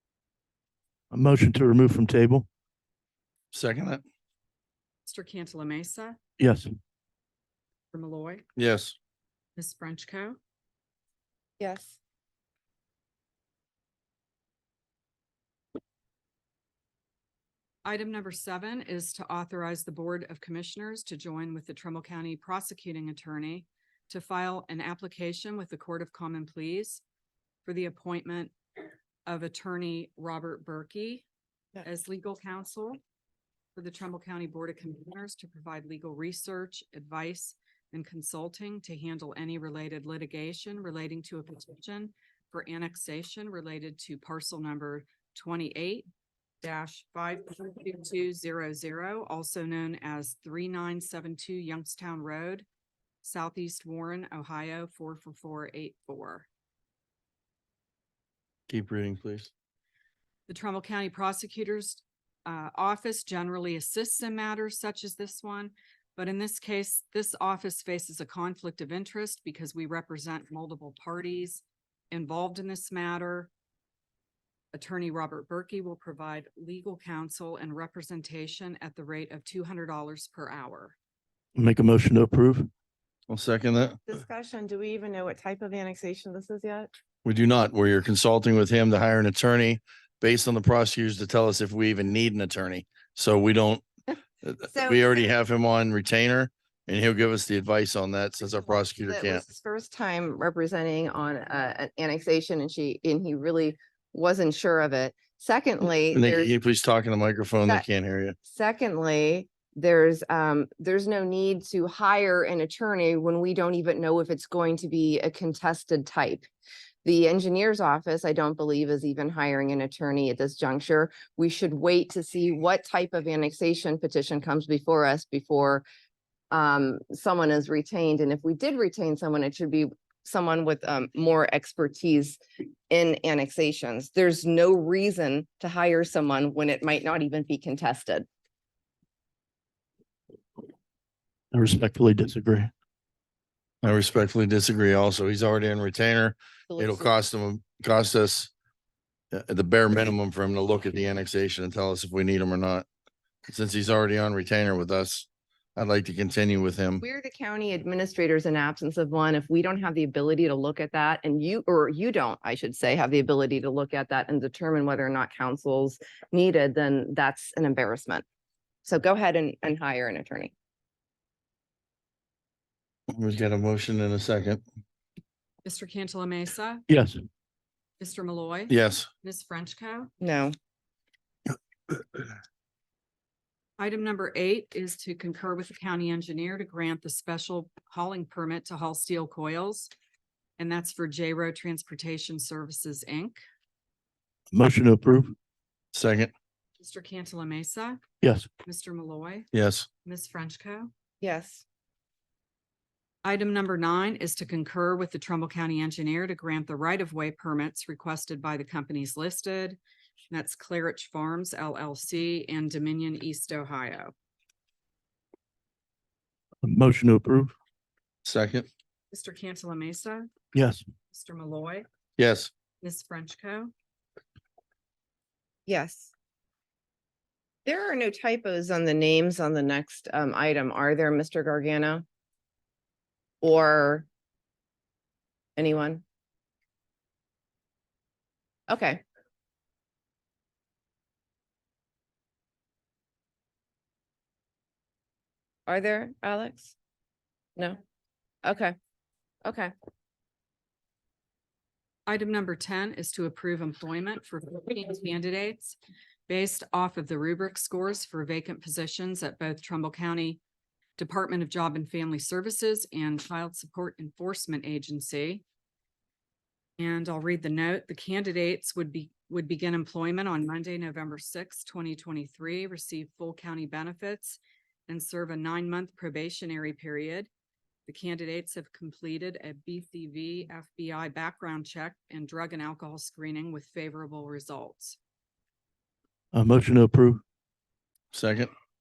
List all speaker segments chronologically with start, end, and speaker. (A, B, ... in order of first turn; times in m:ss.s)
0:01.1-0:02.5 A
0:03.5-0:04.0 B
0:05.0-0:06.2 C
0:06.4-0:06.7 A
0:07.9-0:08.4 C
0:08.6-0:08.9 B
0:09.6-0:10.4 C
0:11.6-0:12.0 D
0:17.8-0:27.0 C
0:27.6-0:28.5 C
0:29.2-0:31.2 C
0:31.8-0:33.0 C
0:33.7-0:46.1 C
0:46.6-0:52.6 C
0:53.2-0:56.5 C
0:58.7-0:59.5 B
1:00.5-1:13.5 C
1:14.7-1:21.0 C
1:21.6-1:22.7 A
1:23.3-1:24.0 B
1:24.1-1:26.9 D
1:27.2-1:33.8 B
1:34.4-1:39.4 B
1:34.7-1:35.2 D
1:39.0-1:46.5 D
1:46.1-1:48.4 B
1:48.4-1:56.5 D
1:57.0-2:05.8 D
2:06.5-2:18.3 D
2:21.5-2:22.7 A
2:23.8-2:28.5 B
2:26.7-2:27.1 D
2:29.3-2:32.8 B
2:33.5-2:37.0 B
2:37.0-2:48.2 D
2:48.8-2:50.5 D
2:53.1-2:54.6 B
2:55.6-2:56.8 C
2:56.9-2:57.2 A
2:58.0-3:00.1 C
2:58.7-2:59.1 B
3:00.2-3:00.5 D
3:03.8-3:09.9 C
3:10.6-3:13.4 C
3:14.5-3:15.3 A
3:15.9-3:16.3 B
3:16.8-3:18.0 C
3:18.2-3:18.5 A
3:18.6-3:19.5 C
3:19.5-3:19.9 B
3:20.0-3:20.9 C
3:21.2-3:21.6 D
3:23.2-3:29.8 C
3:30.3-3:34.1 C
3:36.6-3:37.5 A
3:38.2-3:38.7 B
3:39.1-3:40.3 C
3:40.5-3:40.8 A
3:41.1-3:41.8 C
3:42.2-3:42.5 B
3:42.8-3:43.7 C
3:45.7-3:46.1 D
3:47.6-3:52.0 D
3:53.4-3:54.1 D
3:55.6-3:56.0 D
3:58.7-3:59.0 D
4:05.7-4:06.7 D
4:08.4-4:08.7 D
4:09.4-4:09.7 D
4:12.1-4:15.8 C
4:16.3-4:20.4 C
4:21.0-4:25.4 C
4:26.8-4:37.3 C
4:37.8-4:45.0 C
4:46.3-4:47.2 A
4:48.1-4:48.5 B